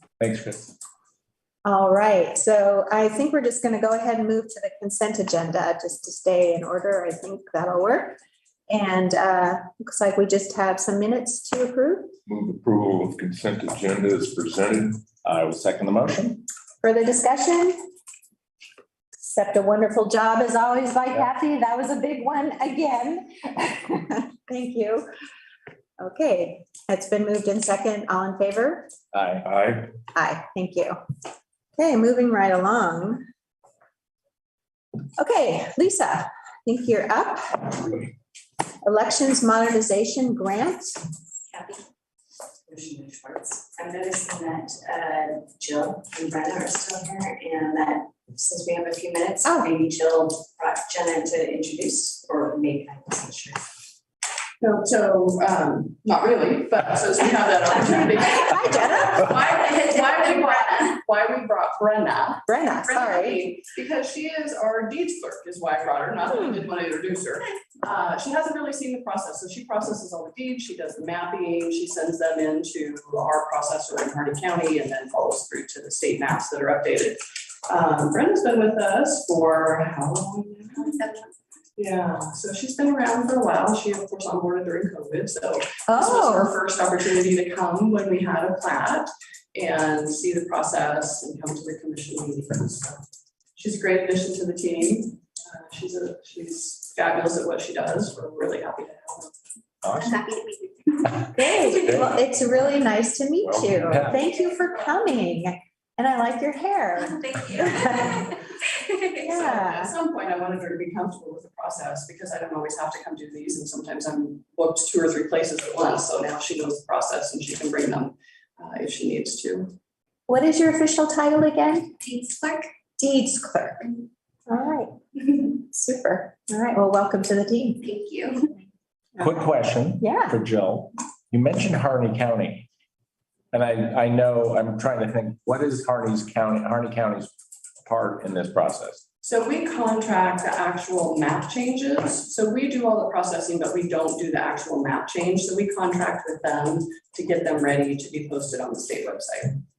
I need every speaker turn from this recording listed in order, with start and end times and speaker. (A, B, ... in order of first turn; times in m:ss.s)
0:00.2-0:00.7 A
0:01.6-0:08.2 B
0:08.7-0:12.1 B
0:12.3-0:15.1 C
0:15.2-0:16.4 A
0:16.8-0:17.8 B
0:19.2-0:25.1 B
0:26.0-0:28.9 B
0:29.1-0:29.5 A
0:29.4-0:29.9 C
0:30.1-0:31.0 B
0:31.8-0:33.2 B
0:35.2-0:38.0 B
0:38.8-0:41.0 B
0:41.5-0:41.8 D
0:42.7-0:53.6 D
0:49.4-0:49.7 B
0:54.6-1:21.0 E
0:58.4-0:59.3 B
1:02.5-1:03.4 B
1:21.8-1:33.0 E
1:25.9-1:26.5 B
1:33.6-1:39.3 E
1:39.8-1:40.2 A
1:41.3-1:48.4 B
1:43.5-1:44.2 A
1:49.1-1:49.9 B
1:49.4-1:59.8 E
2:00.3-2:02.0 B
2:03.0-2:03.9 B
2:04.5-2:08.0 B
2:09.2-2:12.7 A
2:10.0-2:10.4 B
2:13.5-2:17.3 A
2:17.9-2:19.0 A
2:19.2-2:29.6 E